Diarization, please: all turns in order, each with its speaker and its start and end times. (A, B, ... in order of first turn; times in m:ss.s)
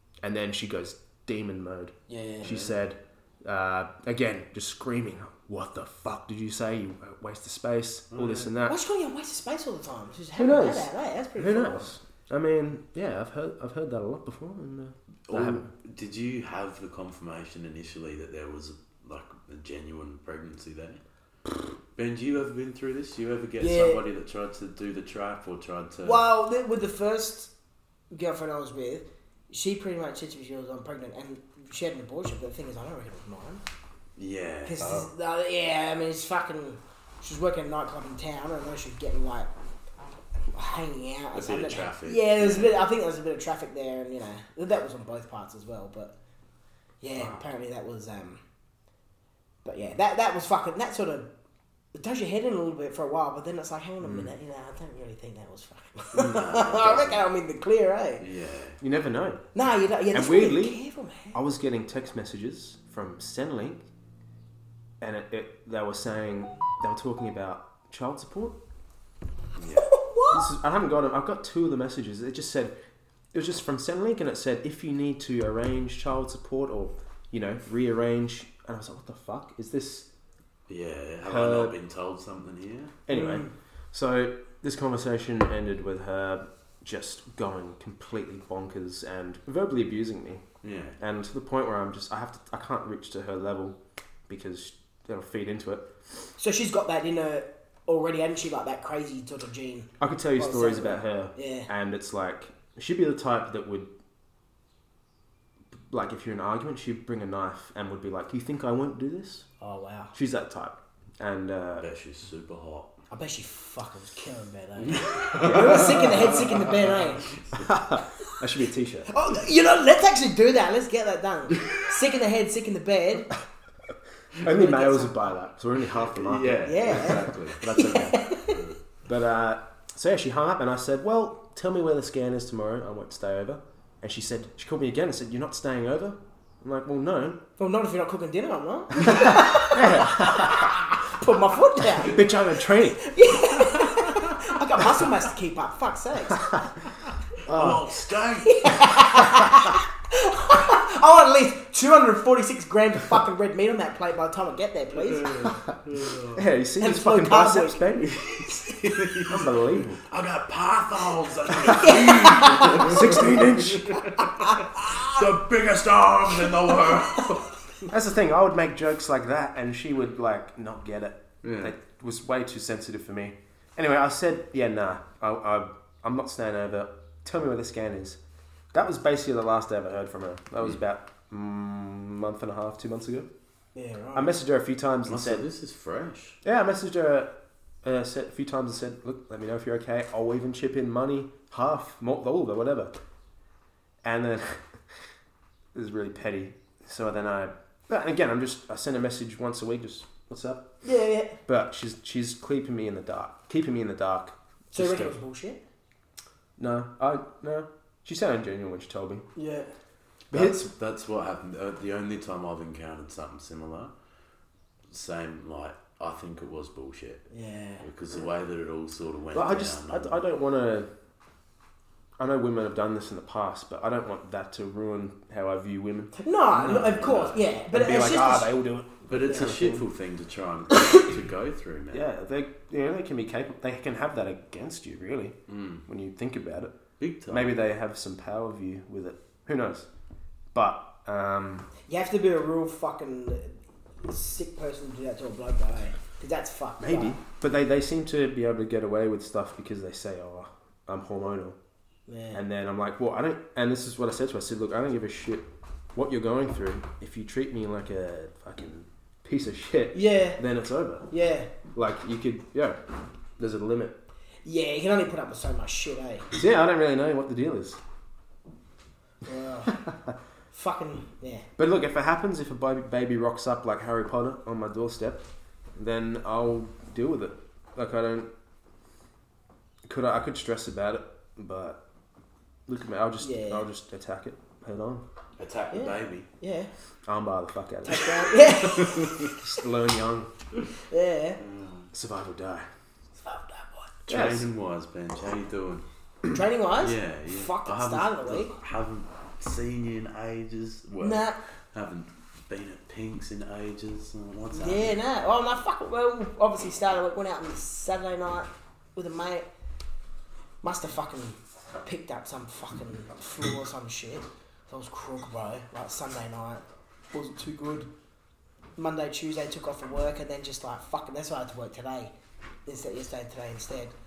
0:00.2-0:08.8 A
0:02.1-0:02.6 B
0:02.4-0:02.7 C
0:08.1-0:08.5 C
0:08.6-0:11.9 B
0:10.4-0:15.7 A
0:15.3-0:21.0 C
0:22.0-0:26.2 C
0:23.6-0:24.0 B
0:26.0-0:27.5 B
0:28.1-0:33.6 B
0:34.2-0:35.0 C
0:34.6-0:39.5 B
0:40.5-0:46.1 B
0:41.3-0:42.9 C
0:47.0-0:48.4 B
0:49.6-0:51.3 B
0:51.9-0:58.2 B
0:54.0-0:54.3 A
0:56.2-0:57.3 C
0:58.2-0:58.8 C
0:58.8-0:59.4 A
0:59.6-1:01.4 B
1:00.1-1:00.8 A
1:01.3-1:03.8 A
1:05.0-1:08.6 A
1:09.6-1:09.9 C
1:09.8-1:10.4 B
1:10.3-1:12.7 A
1:13.3-1:20.1 A
1:20.7-1:23.0 C
1:21.2-1:21.8 A
1:23.1-1:30.4 A
1:23.1-1:23.5 B
1:30.6-1:31.0 C
1:31.0-1:33.8 A
1:34.3-1:35.9 A
1:36.4-1:41.7 B
1:40.0-1:43.9 A
1:45.9-1:49.5 A
1:49.6-1:50.2 B
1:50.1-1:51.9 A
1:51.8-1:52.9 C
1:53.1-1:57.3 B
1:54.8-1:57.7 C
1:55.4-1:56.2 A
1:57.6-1:59.1 A
1:59.1-2:03.3 B
2:04.4-2:08.2 A
2:04.4-2:05.3 B
2:06.0-2:08.8 C
2:06.6-2:08.6 B
2:09.1-2:17.4 A
2:17.6-2:26.5 B
2:19.0-2:20.7 A
2:22.0-2:23.1 A
2:27.4-2:28.8 C
2:27.5-2:27.8 A
2:28.4-2:35.5 B
2:35.0-2:36.4 C
2:36.4-2:38.1 A
2:36.8-2:37.8 B
2:38.0-2:47.6 C
2:39.3-2:40.0 A
2:41.6-2:43.2 B
2:42.8-2:44.0 A
2:44.2-2:45.2 B
2:46.7-2:47.3 B
2:47.9-2:58.2 A
2:51.4-2:51.7 C
2:58.7-3:03.3 A
3:03.8-3:04.3 B
3:04.2-3:05.5 A
3:05.1-3:06.4 C
3:06.4-3:07.3 A
3:07.8-3:12.9 A
3:14.0-3:14.8 A
3:15.7-3:20.7 A
3:20.8-3:21.4 B
3:21.5-3:25.1 A
3:24.7-3:25.6 B
3:26.6-3:29.3 A
3:29.4-3:29.7 B
3:30.3-3:30.7 A
3:30.3-3:33.9 C
3:34.9-3:37.2 C
3:37.3-3:37.8 B
3:37.8-3:40.2 C
3:39.3-3:40.9 A
3:42.2-3:46.1 A
3:46.1-3:48.5 B
3:46.5-3:47.5 C
3:47.7-3:49.9 A
3:49.1-3:52.1 C
3:49.2-3:49.5 B
3:51.9-3:55.4 A
3:55.5-3:55.8 C
3:55.9-3:56.7 A
3:57.0-3:57.5 C
3:57.3-3:59.9 A
4:00.5-4:01.7 A
4:01.9-4:07.2 B
4:06.8-4:11.6 A
4:12.1-4:12.4 B
4:12.3-4:21.1 A
4:19.9-4:20.4 B
4:21.1-4:21.5 B
4:21.7-4:22.8 A
4:23.4-4:24.0 A
4:24.4-4:26.3 B
4:26.3-4:27.8 A
4:29.2-4:29.8 B
4:30.5-4:31.5 B
4:31.6-4:35.2 A
4:35.8-4:38.3 A
4:39.9-4:41.8 A
4:42.7-4:45.0 A
4:43.2-4:43.6 B
4:45.4-4:46.3 C
4:45.7-4:46.7 B
4:47.1-4:48.2 A
4:47.9-4:49.3 B
4:48.6-4:49.4 C
4:49.4-4:50.3 A
4:50.9-4:51.4 B
4:51.4-4:51.9 C
4:51.9-4:52.7 A
4:53.2-4:53.9 B
4:54.1-4:55.8 C
4:54.1-4:54.5 A
4:56.3-4:58.5 B
4:56.8-5:05.0 C
5:01.0-5:01.4 B
5:04.5-5:09.5 B
5:10.6-5:17.9 B
5:18.8-5:22.1 B
5:22.7-5:24.0 B